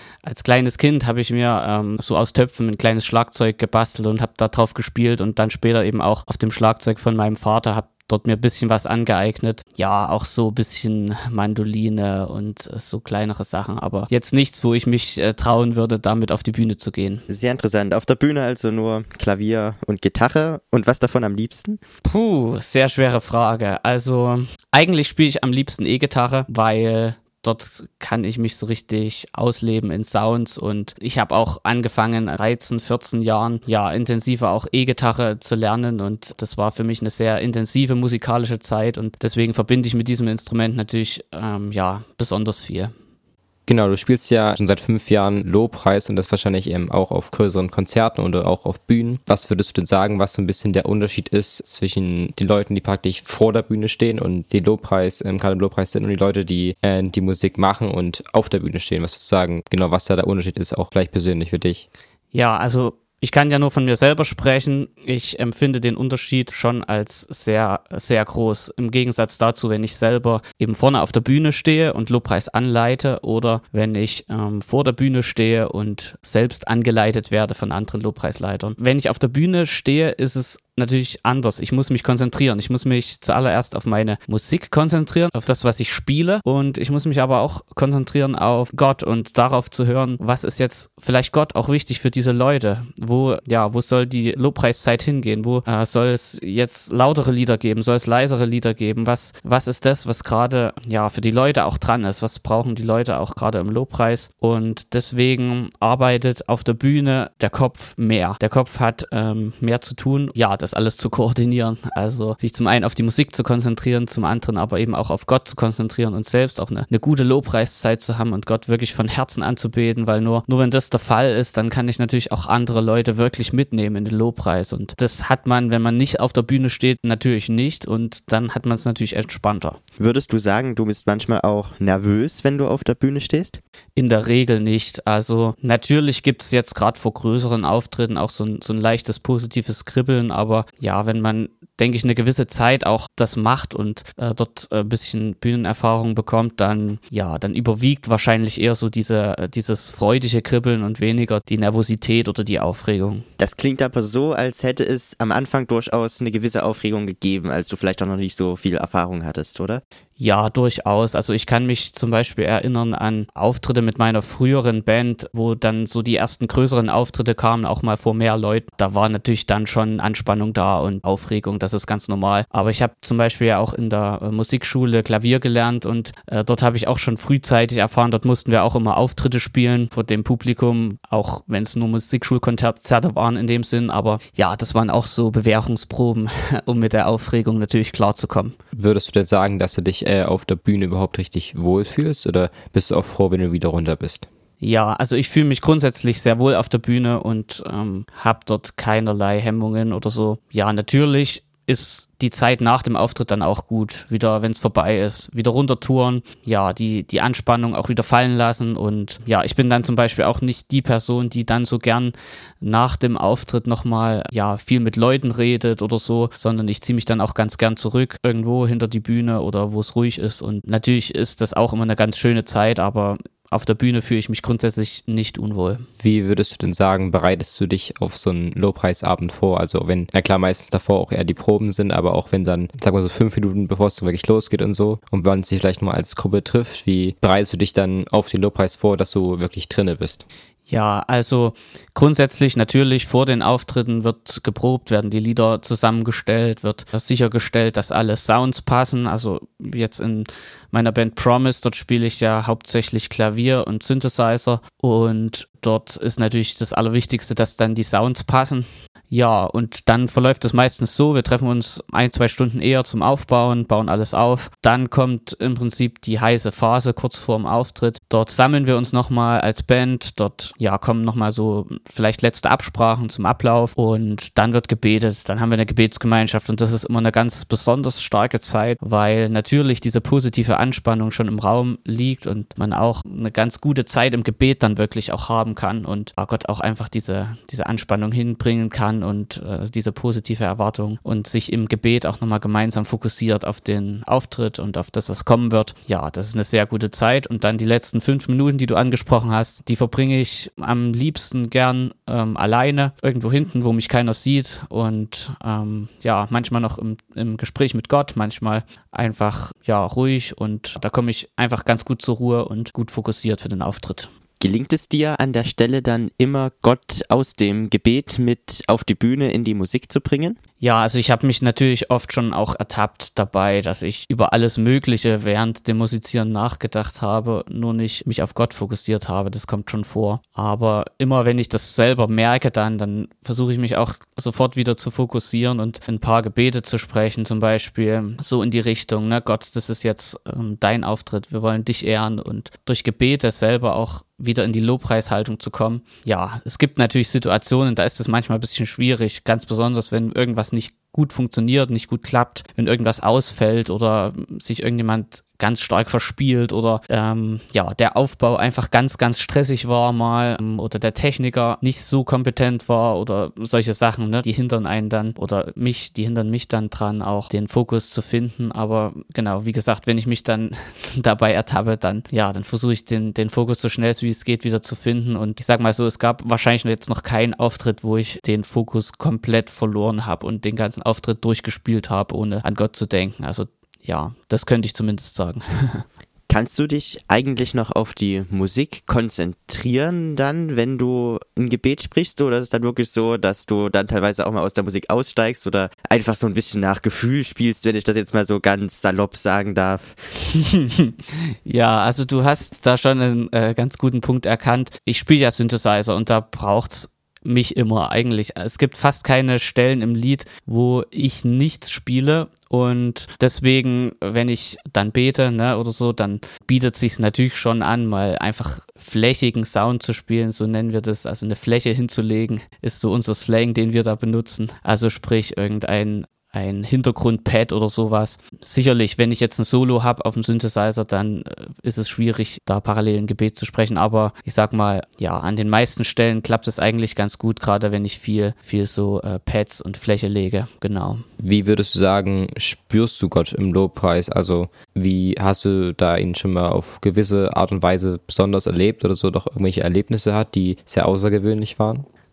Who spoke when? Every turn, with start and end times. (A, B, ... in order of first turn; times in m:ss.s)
0:00.2-0:17.2 A
0:17.3-0:21.8 B
0:22.0-0:42.9 A
0:43.7-1:01.8 C
1:02.3-2:09.8 A
2:10.0-2:13.6 B
2:14.0-2:33.2 A
2:33.4-2:39.8 B
2:40.2-3:08.6 A
3:08.7-3:14.3 C
3:14.6-3:45.8 A
3:46.0-4:00.2 C
4:00.7-5:14.1 A
5:14.4-5:20.4 B
5:20.6-6:25.8 A
6:26.3-6:40.0 B
6:40.3-7:21.0 A
7:21.2-7:31.9 C